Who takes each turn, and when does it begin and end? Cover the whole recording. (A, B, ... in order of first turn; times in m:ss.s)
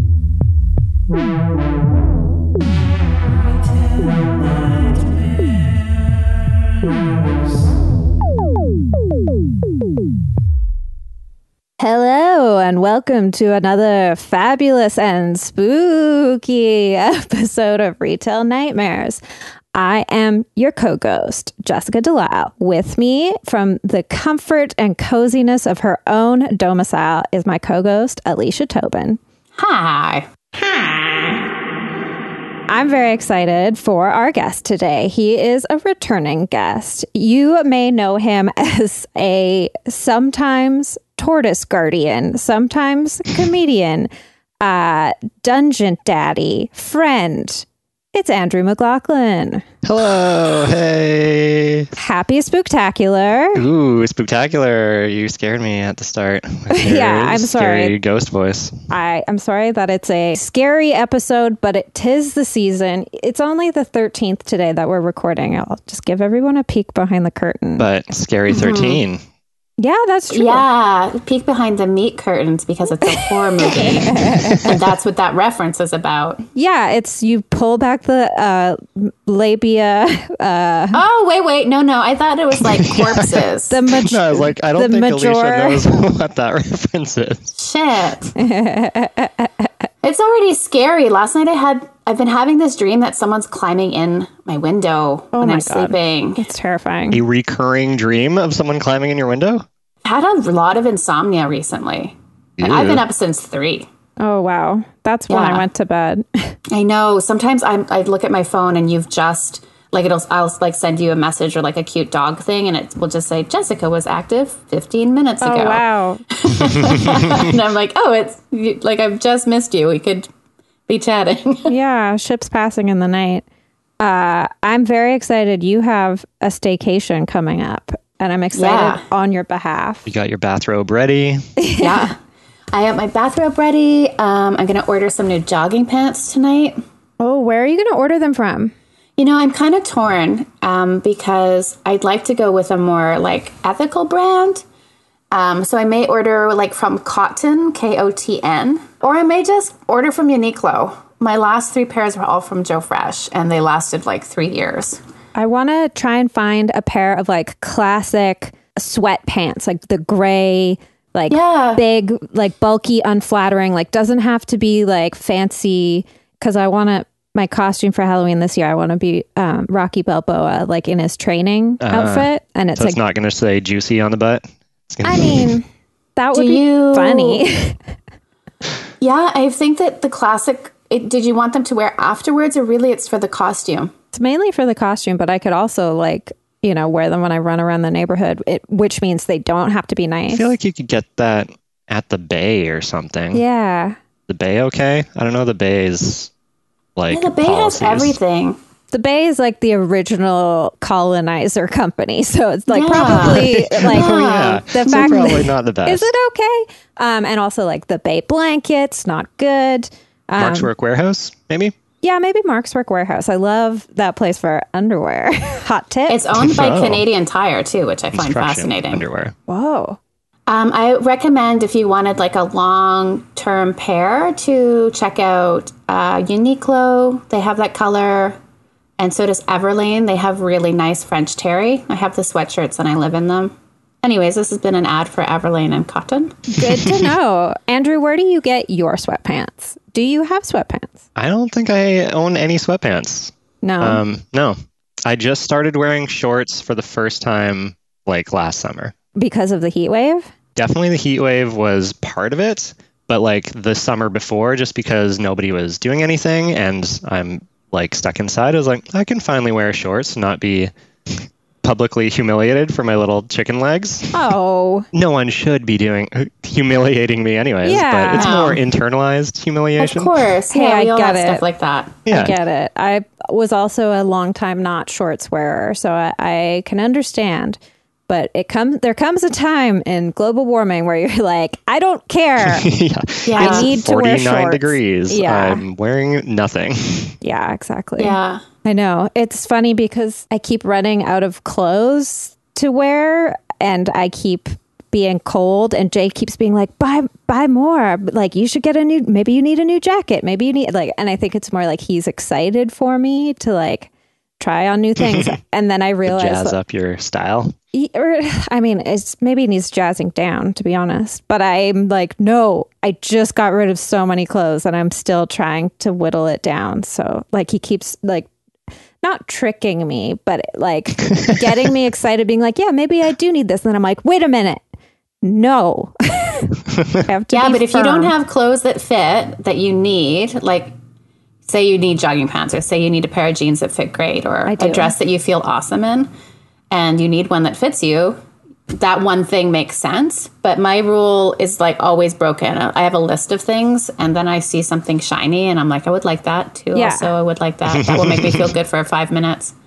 0:11.8-0:19.2 A
0:19.7-0:29.2 A
0:29.6-0:30.2 B
0:32.7-0:49.6 A
0:49.8-0:51.9 C
0:52.0-0:53.6 A
0:53.5-0:58.8 C
0:56.7-0:58.0 A
0:58.9-1:07.8 A
1:07.8-1:09.2 C
1:08.5-1:09.0 B
1:09.8-1:10.6 A
1:10.3-1:16.4 B
1:13.0-1:14.7 A
1:14.4-1:14.7 C
1:16.5-1:21.0 A
1:20.9-1:23.8 B
1:22.6-1:23.4 C
1:23.7-1:25.9 A
1:24.0-1:27.6 C
1:27.6-1:28.3 B
1:28.4-1:29.7 A
1:30.0-1:36.4 B
1:35.3-1:37.2 A
1:37.1-1:39.6 C
1:40.0-1:43.9 B
1:42.6-1:43.0 C
1:44.2-1:46.5 A
1:45.3-1:45.6 B
1:46.7-2:00.3 B
1:55.4-1:56.2 A
2:00.9-2:01.7 B
2:01.7-2:03.4 A
2:04.0-2:10.0 A
2:08.5-2:09.0 B
2:10.0-2:11.4 C
2:11.6-2:12.1 A
2:11.8-2:12.2 B
2:12.7-2:16.8 B
2:17.2-2:18.7 A
2:19.2-2:24.6 B
2:25.3-2:35.0 B
2:35.3-2:53.0 A
2:41.3-2:41.8 B
2:51.8-2:55.6 C
2:55.0-2:57.8 A
2:56.3-2:57.4 B
2:59.0-3:03.9 B
3:04.1-3:10.5 A
3:10.3-3:13.4 C
3:13.3-3:14.0 A
3:14.3-3:16.3 C
3:17.0-3:18.2 C
3:17.1-3:18.6 B
3:18.9-3:30.7 A
3:22.7-3:24.8 B
3:23.2-3:26.1 C
3:30.4-3:31.7 C
3:32.0-3:36.2 A
3:36.1-3:39.0 B
3:36.3-3:37.0 C
3:38.1-3:39.3 C
3:39.5-3:40.0 A
3:40.5-3:48.4 B
3:49.0-3:56.4 B
3:56.5-4:01.0 A
3:56.6-3:57.1 C
4:01.2-4:08.9 C
4:03.6-4:04.0 A
4:09.2-4:10.3 A
4:10.6-4:24.2 C
4:24.1-4:24.9 A
4:24.9-4:30.1 C
4:27.6-4:28.3 A
4:28.1-4:28.6 B
4:29.8-4:32.0 B
4:30.5-4:31.4 A
4:32.0-4:32.4 C
4:32.1-4:42.7 A
4:42.4-4:47.1 C
4:43.2-4:43.7 B
4:43.4-4:45.6 A
4:47.2-5:06.6 A
4:48.0-4:48.4 B
5:05.0-5:05.3 C
5:06.0-5:07.5 C
5:07.7-5:18.3 A
5:19.0-5:24.6 A
5:21.3-5:21.5 C
5:25.2-5:26.5 A
5:26.7-5:27.0 C
5:27.0-5:28.1 A
5:27.3-5:30.7 B
5:31.4-5:36.1 B
5:34.4-5:34.9 A
5:36.7-5:38.2 B
5:38.7-5:49.5 B
5:46.7-5:47.1 A
5:47.7-5:48.5 C